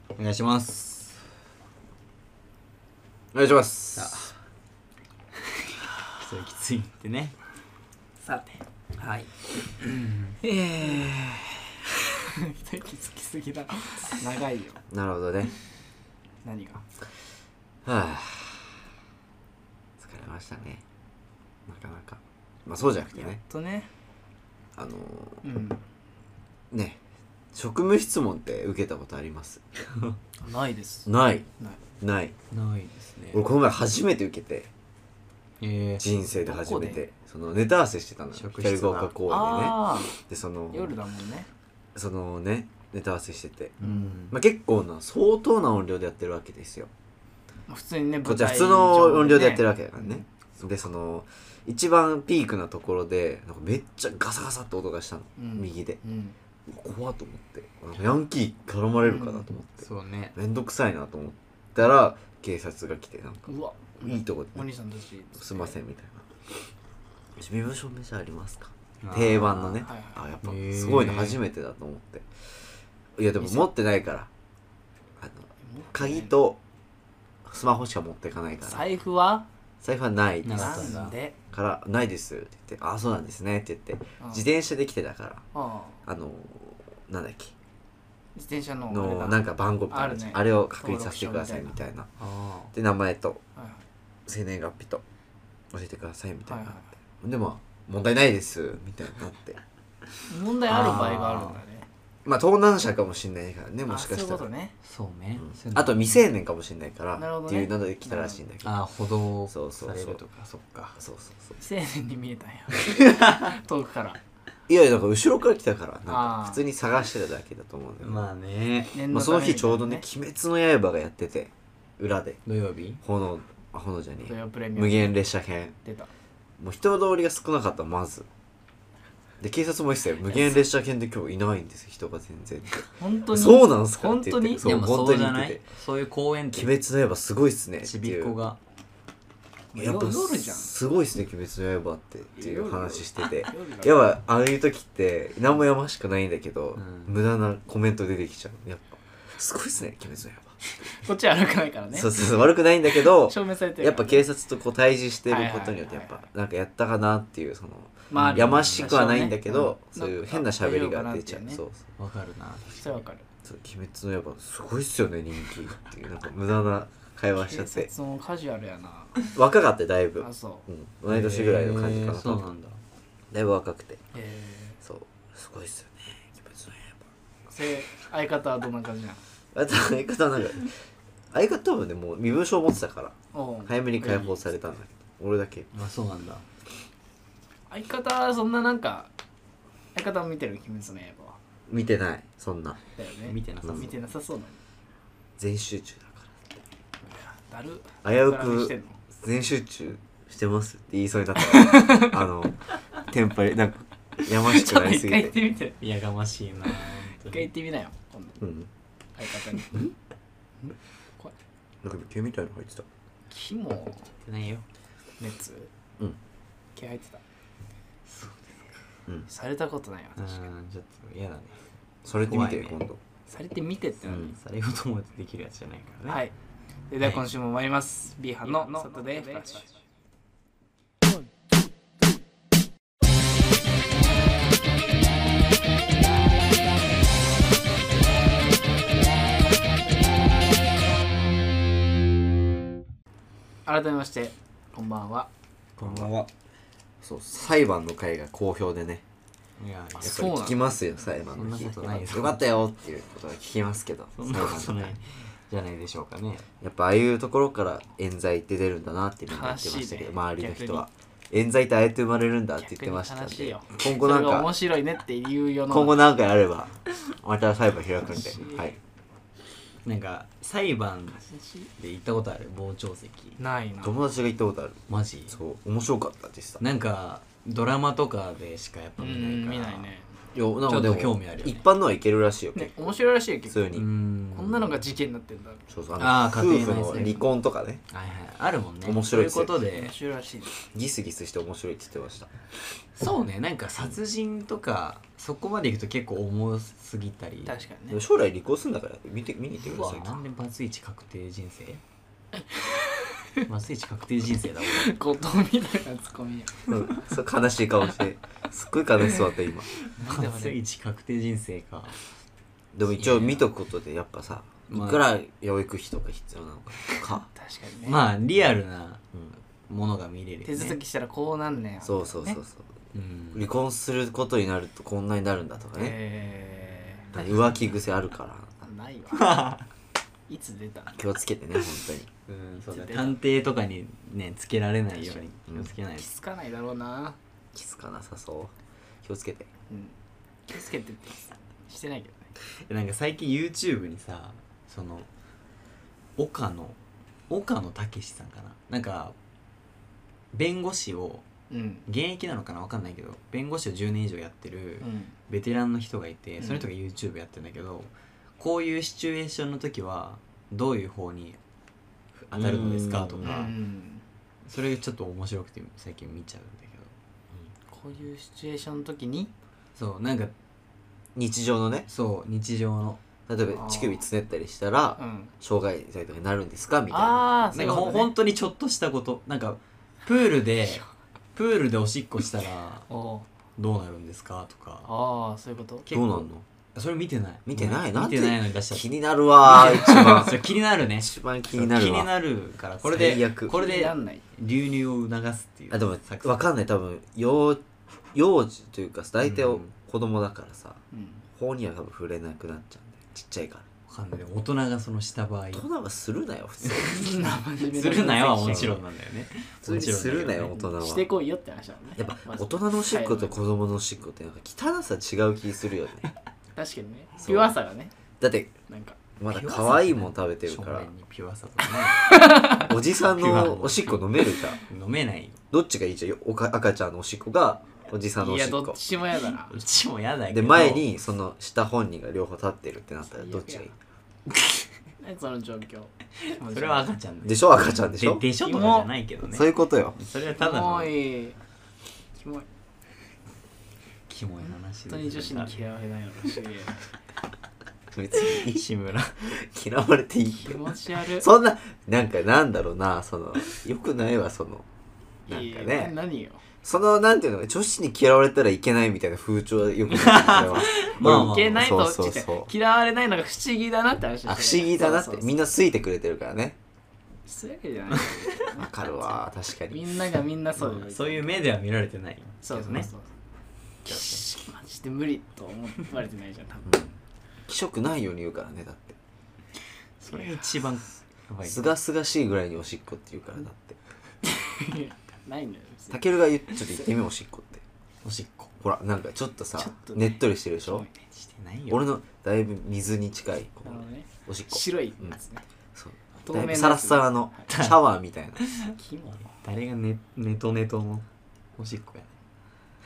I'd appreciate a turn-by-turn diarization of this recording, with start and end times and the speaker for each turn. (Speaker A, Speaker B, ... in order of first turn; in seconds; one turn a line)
Speaker A: 0.1-1.2
Speaker B: 3.3-4.3
Speaker A: 4.0-4.3
Speaker A: 6.1-7.3
Speaker C: 8.2-9.3
Speaker A: 9.8-10.4
Speaker C: 10.4-14.8
Speaker B: 14.9-15.5
Speaker C: 16.4-16.8
Speaker B: 17.8-18.9
Speaker B: 20.0-20.8
Speaker B: 21.7-23.4
Speaker C: 23.2-23.9
Speaker B: 24.8-25.4
Speaker C: 25.4-25.8
Speaker B: 26.7-27.0
Speaker B: 27.5-29.6
Speaker C: 30.4-31.8
Speaker B: 31.1-31.5
Speaker B: 32.0-32.3
Speaker A: 32.5-33.4
Speaker B: 33.3-34.7
Speaker A: 35.6-36.1
Speaker B: 36.0-41.0
Speaker C: 36.3-37.0
Speaker A: 38.3-39.1
Speaker C: 39.3-40.1
Speaker C: 40.7-41.5
Speaker B: 41.9-46.9
Speaker C: 43.8-44.2
Speaker A: 43.8-44.4
Speaker C: 47.7-50.2
Speaker B: 48.2-56.0
Speaker C: 55.4-56.4
Speaker B: 56.7-63.5
Speaker C: 59.0-59.5
Speaker A: 59.8-60.4
Speaker C: 63.5-65.8
Speaker B: 64.0-64.7
Speaker B: 65.3-66.6
Speaker B: 67.3-72.3
Speaker A: 69.0-69.9
Speaker C: 69.6-70.2
Speaker A: 70.4-71.4
Speaker B: 73.2-74.3
Speaker C: 73.4-73.7
Speaker B: 75.2-76.6
Speaker C: 75.6-76.3
Speaker B: 77.4-78.9
Speaker C: 78.6-79.5
Speaker B: 79.8-85.4
Speaker A: 80.4-81.2
Speaker C: 80.5-81.3
Speaker C: 84.2-84.4
Speaker C: 85.5-86.0
Speaker B: 86.0-87.5
Speaker C: 88.3-91.8
Speaker B: 88.9-92.1
Speaker A: 92.2-92.7
Speaker B: 92.7-93.4
Speaker C: 93.5-93.8
Speaker B: 94.3-95.0
Speaker B: 95.7-99.6
Speaker C: 96.5-96.8
Speaker C: 100.2-101.9
Speaker A: 100.7-101.6
Speaker B: 102.2-104.5
Speaker C: 103.9-104.7
Speaker A: 104.8-106.2
Speaker B: 105.4-108.8
Speaker C: 107.2-108.4
Speaker A: 108.6-111.0
Speaker B: 109.5-110.2
Speaker B: 111.0-111.6
Speaker C: 111.6-114.2
Speaker B: 114.7-118.2
Speaker C: 116.0-116.6
Speaker A: 118.0-118.9
Speaker C: 118.9-120.0
Speaker B: 119.1-122.4
Speaker A: 122.5-123.0
Speaker B: 123.0-125.8
Speaker C: 124.2-125.1
Speaker C: 125.8-126.1
Speaker B: 126.6-128.3
Speaker B: 129.4-135.7
Speaker C: 130.3-130.6
Speaker C: 132.9-134.6
Speaker A: 134.6-136.7
Speaker B: 136.5-138.3
Speaker A: 137.8-138.6
Speaker C: 139.7-140.7
Speaker B: 139.7-150.6
Speaker C: 142.3-144.1
Speaker A: 146.8-147.1
Speaker C: 150.8-152.2
Speaker B: 151.9-161.8
Speaker C: 153.0-154.2
Speaker C: 155.3-156.2
Speaker C: 158.1-161.6
Speaker A: 158.1-158.9
Speaker A: 162.0-162.8
Speaker C: 162.8-163.2
Speaker B: 163.4-167.9
Speaker C: 167.3-169.3
Speaker B: 169.3-172.5
Speaker C: 170.2-170.7
Speaker A: 171.1-172.8
Speaker B: 173.3-174.0
Speaker C: 174.1-174.8
Speaker B: 174.8-177.0
Speaker C: 177.5-179.2
Speaker B: 179.5-180.7
Speaker B: 181.3-183.1
Speaker C: 183.3-184.6
Speaker B: 183.7-185.7
Speaker A: 185.7-186.4
Speaker C: 187.7-189.1
Speaker C: 189.9-191.4
Speaker B: 191.7-192.8
Speaker C: 192.9-194.6
Speaker A: 193.2-194.0
Speaker B: 195.4-196.3
Speaker C: 197.1-199.0
Speaker B: 198.0-205.3
Speaker C: 201.5-202.2
Speaker C: 204.3-205.8
Speaker A: 205.8-207.5
Speaker C: 207.1-208.5
Speaker B: 208.4-208.7
Speaker C: 209.2-209.8
Speaker C: 210.6-211.3
Speaker B: 211.8-212.8
Speaker C: 213.3-214.1
Speaker A: 214.2-214.6
Speaker C: 215.2-215.7
Speaker C: 216.7-217.2
Speaker A: 218.1-218.8
Speaker C: 219.3-220.5
Speaker A: 220.2-221.6
Speaker B: 222.0-223.0
Speaker A: 222.1-222.8
Speaker C: 223.3-224.3
Speaker B: 224.0-224.3
Speaker A: 224.2-226.2
Speaker C: 226.1-226.3
Speaker C: 226.9-229.8
Speaker A: 228.5-229.6
Speaker C: 243.7-245.3
Speaker A: 245.8-246.3
Speaker B: 245.8-246.1
Speaker B: 247.0-249.0
Speaker A: 249.6-250.2
Speaker C: 250.0-250.8
Speaker B: 250.0-255.0
Speaker A: 251.3-252.4
Speaker A: 254.2-256.4
Speaker B: 256.6-264.5
Speaker C: 259.3-260.8
Speaker C: 262.6-266.0
Speaker B: 265.7-268.8
Speaker C: 268.0-268.7
Speaker A: 269.8-271.2
Speaker C: 271.1-271.7
Speaker A: 271.8-273.4
Speaker C: 273.4-274.0
Speaker B: 273.8-276.6
Speaker A: 274.9-275.4
Speaker A: 276.6-279.9
Speaker C: 279.0-280.1
Speaker B: 280.3-282.9
Speaker A: 280.6-281.6
Speaker C: 282.5-285.7
Speaker B: 283.5-283.9
Speaker A: 283.7-284.8
Speaker B: 285.7-287.8
Speaker A: 286.0-287.2
Speaker A: 287.9-289.9
Speaker B: 288.8-289.6
Speaker C: 289.1-290.5
Speaker B: 290.6-292.3
Speaker A: 292.9-297.6
Speaker C: 297.4-298.0
Speaker B: 297.9-300.2
Speaker A: 299.6-301.8
Speaker A: 303.4-304.9
Speaker C: 304.6-306.8
Speaker B: 306.7-309.7
Speaker C: 309.9-310.6
Speaker A: 310.0-312.0
Speaker B: 312.7-317.3
Speaker A: 312.9-313.4
Speaker A: 314.7-315.0
Speaker C: 317.3-318.0
Speaker A: 317.8-319.0
Speaker A: 319.7-320.8
Speaker C: 320.4-322.4
Speaker B: 321.8-322.7
Speaker A: 322.9-323.5
Speaker B: 323.3-326.0
Speaker C: 325.8-327.1
Speaker B: 327.1-328.6
Speaker C: 328.6-329.6
Speaker A: 329.1-329.6
Speaker C: 330.3-331.0
Speaker B: 330.9-332.1
Speaker A: 332.3-336.1
Speaker C: 332.7-333.2
Speaker C: 334.9-335.2
Speaker C: 335.9-337.2
Speaker B: 337.5-338.5
Speaker B: 339.0-339.5
Speaker C: 339.7-339.9
Speaker C: 340.5-342.3
Speaker A: 342.7-345.1
Speaker A: 346.1-346.8
Speaker A: 347.3-349.1
Speaker A: 350.3-351.2
Speaker C: 351.5-351.8
Speaker A: 351.9-361.4
Speaker C: 354.8-355.1
Speaker C: 356.4-356.7
Speaker A: 362.1-363.5
Speaker B: 362.3-363.5
Speaker C: 363.2-364.0
Speaker A: 364.4-366.9
Speaker C: 367.7-369.3
Speaker A: 369.8-370.3
Speaker B: 371.1-371.9
Speaker A: 371.9-373.0
Speaker B: 373.3-377.2
Speaker C: 373.5-374.0
Speaker C: 375.0-375.3
Speaker C: 376.9-378.1
Speaker A: 377.5-382.9
Speaker C: 382.9-383.3
Speaker A: 383.6-384.9
Speaker C: 384.8-385.9
Speaker B: 385.9-386.4
Speaker A: 385.9-396.4
Speaker B: 387.4-392.1
Speaker B: 392.8-393.6
Speaker C: 393.5-394.2
Speaker B: 395.7-400.8
Speaker A: 399.2-399.7
Speaker C: 400.9-401.2
Speaker B: 401.3-403.7
Speaker A: 403.9-405.6
Speaker B: 405.5-407.3
Speaker A: 406.6-410.6
Speaker C: 406.8-408.8
Speaker B: 408.4-408.8
Speaker B: 409.6-411.1
Speaker C: 410.5-413.4
Speaker B: 412.0-416.1
Speaker C: 416.6-417.9
Speaker B: 417.2-417.6
Speaker B: 418.2-418.6
Speaker C: 418.7-419.0
Speaker B: 419.2-420.9
Speaker A: 419.3-425.4
Speaker B: 422.4-424.6
Speaker B: 425.5-428.8
Speaker C: 428.1-429.6
Speaker A: 429.5-430.9
Speaker B: 430.3-433.7
Speaker C: 433.1-433.7
Speaker C: 435.0-436.9
Speaker A: 436.2-441.0
Speaker B: 437.2-438.2
Speaker C: 438.4-438.9
Speaker B: 439.3-440.0
Speaker C: 440.3-441.4
Speaker C: 442.1-442.5
Speaker A: 444.1-445.6
Speaker C: 444.4-446.8
Speaker B: 447.9-448.6
Speaker A: 448.1-449.2
Speaker B: 449.2-454.6
Speaker C: 450.4-451.3
Speaker B: 455.3-455.9
Speaker C: 455.3-456.4
Speaker B: 456.6-462.5
Speaker A: 459.9-461.6
Speaker C: 460.8-465.3
Speaker B: 464.2-466.6
Speaker C: 467.2-471.3
Speaker B: 468.5-469.9
Speaker A: 470.6-472.9
Speaker C: 472.4-473.1
Speaker A: 473.8-474.3
Speaker C: 473.8-476.8
Speaker B: 477.5-479.0
Speaker A: 480.0-481.7
Speaker B: 481.4-483.8
Speaker C: 484.2-486.0
Speaker B: 485.9-487.6
Speaker A: 488.0-488.5
Speaker B: 488.6-490.9
Speaker C: 489.6-491.0
Speaker A: 491.1-491.9
Speaker B: 491.7-495.1
Speaker C: 493.6-495.4
Speaker B: 495.7-498.4
Speaker C: 496.2-497.5
Speaker A: 497.5-497.8
Speaker A: 498.4-498.7
Speaker C: 498.7-499.3
Speaker A: 499.3-501.0
Speaker A: 501.6-502.1